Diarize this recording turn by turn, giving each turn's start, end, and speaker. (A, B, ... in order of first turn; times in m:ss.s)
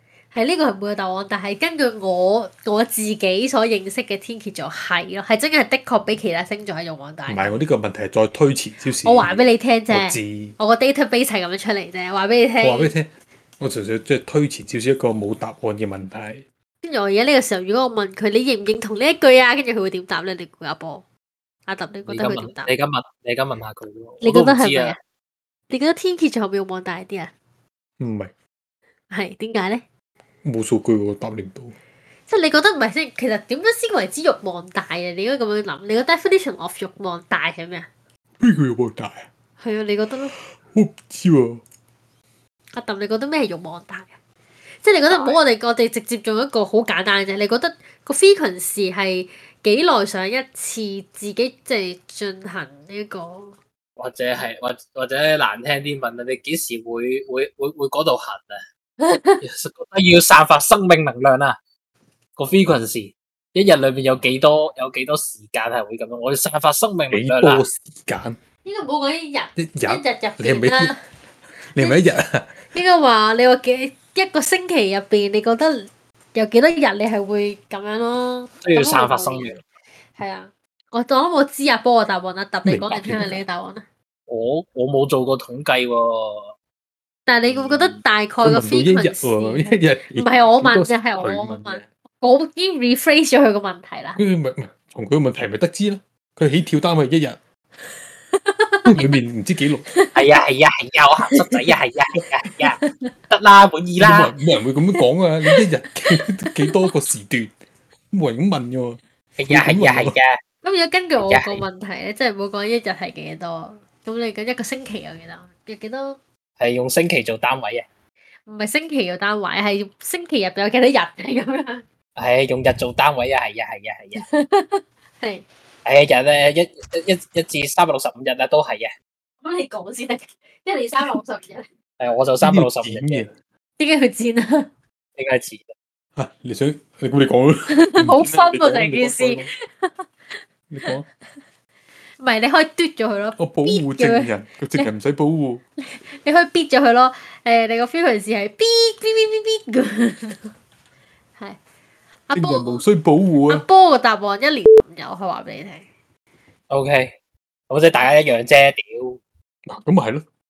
0:00.3-0:07.6 A
0:07.3-0:10.6 B
0:09.0-0:12.9 A
0:12.6-0:16.4 B
0:16.8-0:21.0 A
0:21.7-0:22.7 A
0:22.1-0:25.0 C
0:24.2-0:25.0 A
0:25.7-0:27.3 A
0:28.0-0:28.3 B
0:29.1-0:29.8 A
0:30.4-0:31.8 B
0:32.3-0:37.9 A
0:38.4-0:39.3 B
0:39.6-0:40.4 A
0:40.4-0:41.6 B
0:42.7-0:44.2 A
0:44.8-0:53.6 A
0:45.1-0:45.4 C
0:54.0-0:58.6 C
0:59.0-0:59.4 A
0:59.4-1:01.6 C
1:02.4-1:07.6 C
1:07.1-1:08.4 B
1:08.6-1:11.0 A
1:09.6-1:11.0 B
1:11.7-1:12.6 B
1:11.8-1:12.0 A
1:12.7-1:19.6 A
1:18.6-1:19.6 C
1:20.2-1:23.8 A
1:22.6-1:23.4 B
1:24.3-1:26.5 C
1:27.3-1:34.2 A
1:27.5-1:28.0 C
1:28.4-1:31.9 B
1:34.2-1:37.4 B
1:38.3-1:39.1 A
1:38.9-1:39.9 B
1:39.9-1:40.4 A
1:40.2-1:44.3 C
1:42.8-1:43.1 A
1:44.0-1:47.5 B
1:44.9-1:46.8 A
1:48.1-1:50.2 B
1:49.4-1:50.4 C
1:50.6-1:56.2 A
1:51.2-1:51.6 C
1:56.6-1:57.8 C
1:58.5-2:01.8 A
2:02.2-2:04.3 C
2:04.2-2:05.4 A
2:05.8-2:08.9 C
2:09.4-2:11.6 A
2:12.0-2:13.3 C
2:12.4-2:13.3 B
2:13.8-2:14.7 A
2:15.2-2:15.7 C
2:16.2-2:19.5 B
2:17.7-2:21.0 A
2:20.7-2:21.0 B
2:22.2-2:24.9 A
2:23.4-2:25.6 B
2:25.8-2:30.5 A
2:32.3-2:32.8 A
2:32.4-2:33.6 B
2:33.5-2:35.9 A
2:36.7-2:37.1 C
2:37.7-2:39.2 C
2:39.7-2:40.2 B